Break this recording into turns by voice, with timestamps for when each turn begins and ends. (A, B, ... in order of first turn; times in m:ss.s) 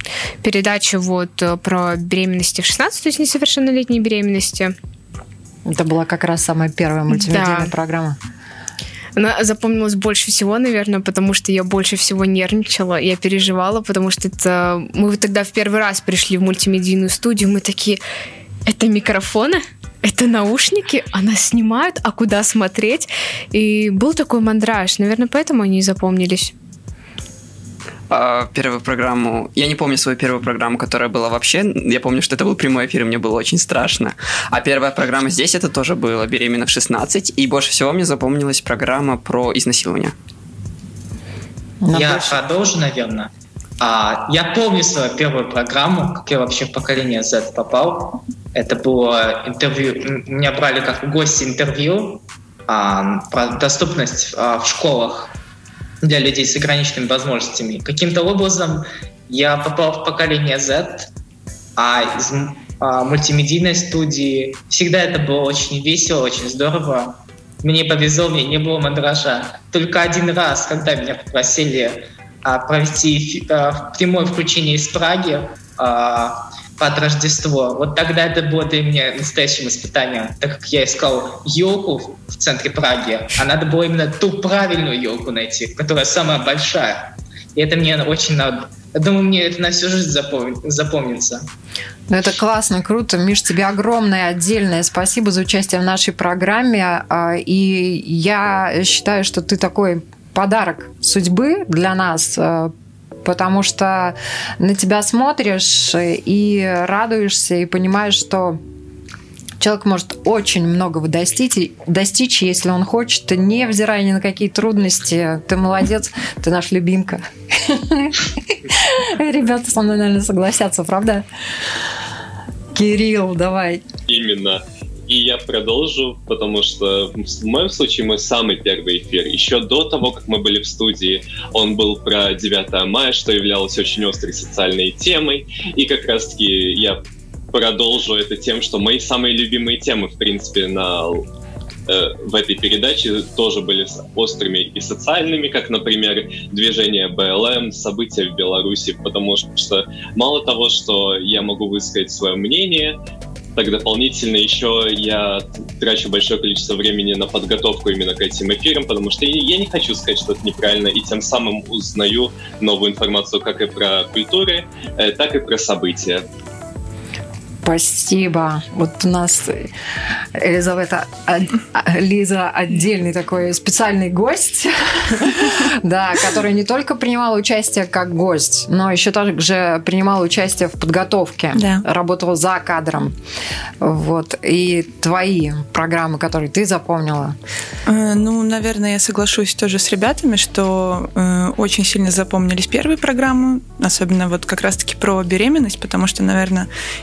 0:00.4-0:04.7 A
0:05.6-0:08.2 B
0:07.1-0:07.7 A
0:09.2-0:18.0 A
0:18.7-0:26.5 A
0:28.1-0:40.1 C
0:41.8-0:42.4 B
0:41.9-0:55.3 D
0:56.0-1:01.1 D
1:01.8-1:31.4 D
1:32.1-1:42.7 B
1:43.2-1:48.6 B
1:49.6-2:01.2 B
2:02.7-2:03.8 B
2:04.1-2:17.0 E
2:17.5-2:21.2 E
2:21.9-2:33.0 E
2:33.5-2:46.2 E
2:47.6-2:49.7 B
2:50.3-3:03.2 B
3:03.8-3:07.4 B
3:07.8-3:16.7 F